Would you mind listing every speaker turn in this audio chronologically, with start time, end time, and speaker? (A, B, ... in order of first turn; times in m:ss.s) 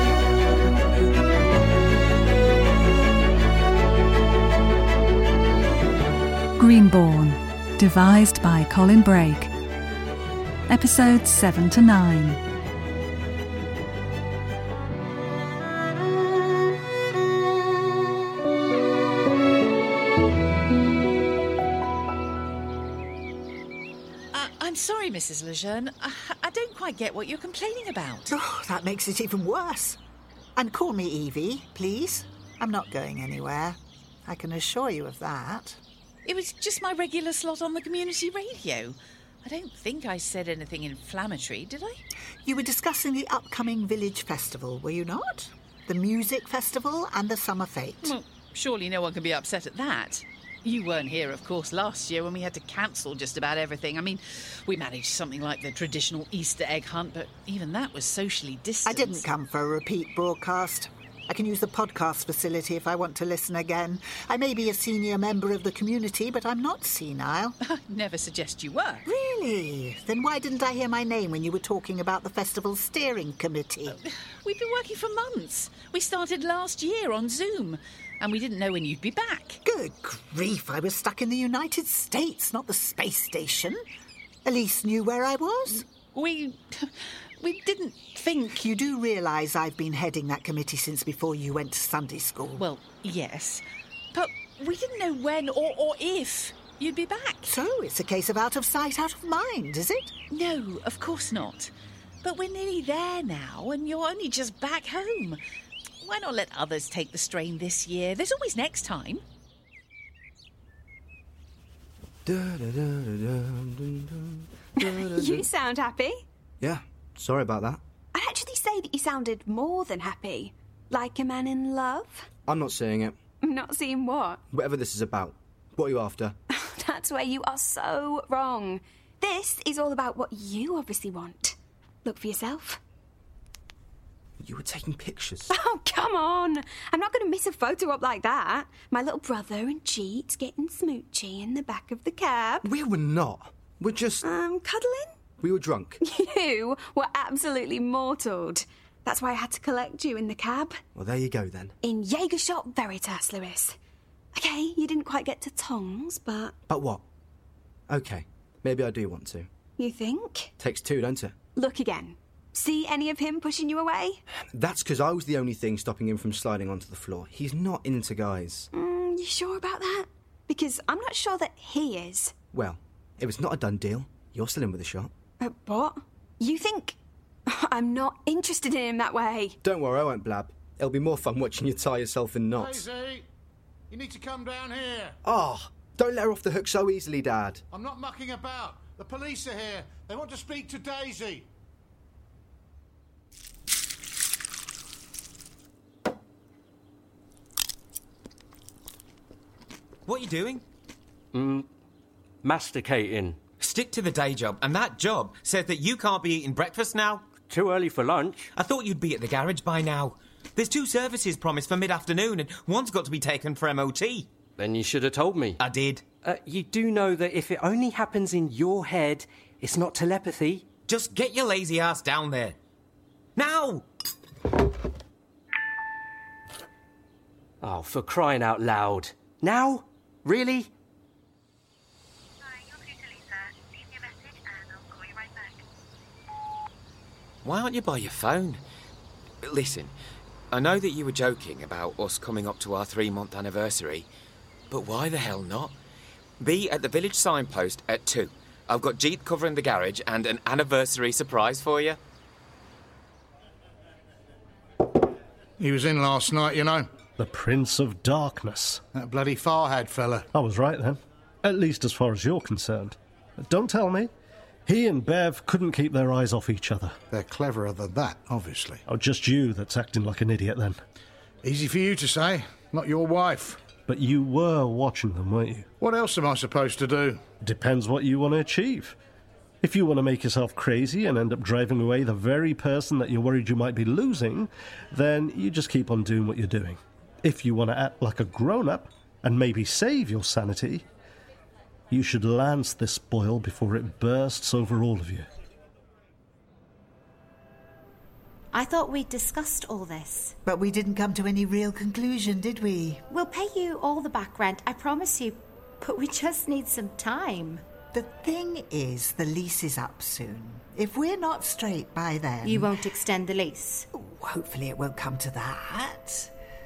0:06.6-0:09.5 A
0:10.7-0:12.4 A
0:24.3-0:28.3 B
0:28.3-0:30.0 C
0:30.6-0:35.8 C
0:36.2-0:42.0 B
0:42.4-0:48.2 C
0:48.0-0:59.2 B
0:58.8-1:07.6 C
1:07.6-1:09.0 B
1:09.1-1:14.0 C
1:13.9-1:19.6 B
1:19.6-1:23.8 C
1:24.4-1:25.8 C
1:26.0-1:28.6 B
1:28.6-1:32.7 C
1:32.6-1:37.5 B
1:37.5-1:40.1 C
1:40.3-1:41.7 B
1:42.2-1:45.4 B
1:46.0-1:49.2 B
1:52.3-1:55.5 D
1:54.8-1:56.2 E
1:56.6-1:57.8 D
1:58.1-2:02.3 E
2:02.5-2:03.2 D
2:03.4-2:04.4 E
2:04.5-2:06.4 D
2:06.5-2:12.8 E
2:14.4-2:15.5 D
2:15.5-2:22.7 E
2:22.6-2:24.2 D
2:24.2-2:25.2 E
2:25.4-2:26.0 D
2:26.0-2:30.8 E
2:31.0-2:31.8 D
2:31.8-2:33.8 E
2:34.3-2:36.6 E
2:36.7-2:37.0 D
2:37.9-2:39.5 D
2:39.8-2:40.5 E
2:40.6-2:41.4 D
2:41.6-2:44.2 E
2:44.5-2:48.7 D
2:48.7-2:52.3 E
2:52.5-2:55.1 D
2:55.4-2:57.0 E
2:57.5-2:59.6 E
2:59.6-3:02.8 D
3:02.6-3:03.3 F
3:03.9-3:05.2 F
3:05.2-3:07.6 D
3:07.7-3:11.5 F
3:20.1-3:20.6 G
3:21.3-3:21.7 H
3:22.4-3:23.4 H
3:23.6-3:27.3 G
3:27.4-3:28.5 H
3:28.5-3:34.3 G
3:34.6-3:35.6 H
3:35.6-3:36.0 G
3:36.2-3:40.7 H
3:40.9-3:42.6 G
3:43.4-3:43.9 G
3:47.6-3:50.7 H
3:57.4-3:58.6 G
3:59.4-3:59.9 G
4:00.5-4:04.1 G
4:04.7-4:05.8 G
4:06.4-4:12.0 G
4:15.6-4:16.9 F
4:17.2-4:18.8 I
4:18.9-4:20.3 F
4:20.3-4:24.1 I
4:24.7-4:27.0 I
4:27.1-4:28.8 F
4:28.9-4:30.8 I
4:31.4-4:33.6 F
4:33.9-4:35.7 I
4:35.8-4:37.2 F
4:37.4-4:39.0 I
4:39.6-4:50.8 I
4:51.9-4:55.3 I
4:58.5-5:00.4 J
5:00.4-5:03.0 C
5:03.1-5:07.6 J
5:07.9-5:12.8 C
5:12.4-5:13.9 J
5:13.9-5:16.3 C